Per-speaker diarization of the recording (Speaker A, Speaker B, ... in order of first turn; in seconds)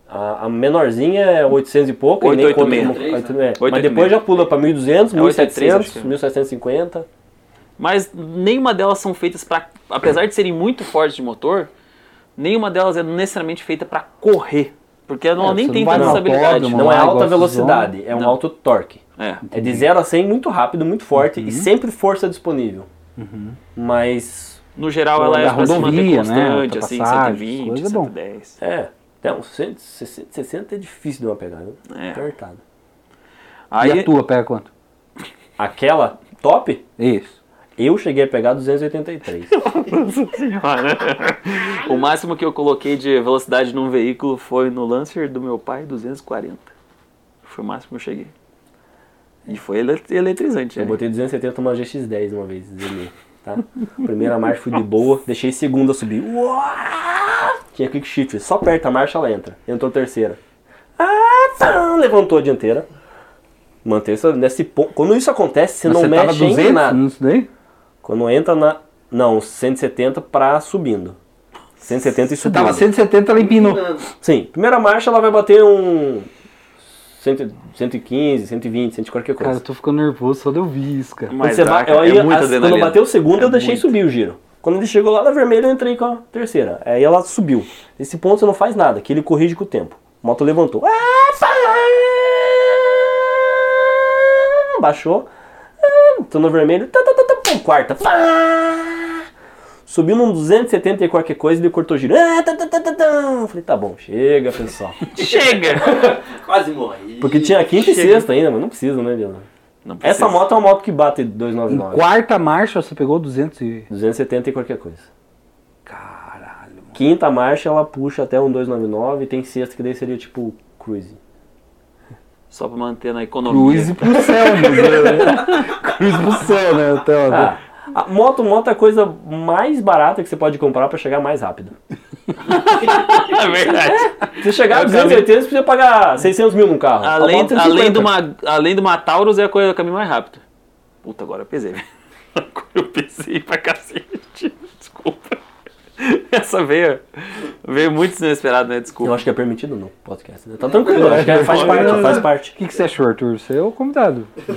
Speaker A: 0.1-7.1, 15.9-19.0, 19.5-22.9, 23.8-24.6, 28.6-32.6, 35.6-36.8, 37.8-39.6, 50.8-60.4, 61.0-62.9, 63.8-67.0, 68.0-71.2, 71.8-72.9, 74.2-76.3, 77.2-79.6, 81.4-95.3, 95.8-99.3, 99.9-105.0, 105.9-106.1, 107.2-109.5, 110.0-112.0, 113.9-115.1, 116.9-121.2, 127.3-131.8, 134.2-138.2, 149.0-152.6
Speaker B: 2.2-4.5, 5.1-6.1, 7.8-11.7, 12.4-16.9, 19.2-19.4, 24.8-28.6, 31.9-32.2, 33.7-34.1, 39.5-46.7, 47.4-48.3, 49.5-51.0, 81.3-83.9, 105.1-105.9, 107.7-108.3, 109.8-110.4, 122.5-126.0, 132.4-135.3, 137.0-140.4, 141.0-141.8, 142.3-145.4, 146.0-149.2, 151.0-152.3
Speaker C: 2.5-3.4, 73.4-74.1, 105.2-107.5
Speaker D: 15.4-17.9, 19.5-19.9, 21.2-21.7, 23.2-23.6, 25.2-28.1, 33.8-34.7, 37.0-37.4, 65.8-67.5, 72.4-74.0, 79.4-81.4, 111.7-113.9, 115.9-117.0, 123.5-127.5, 150.9-154.3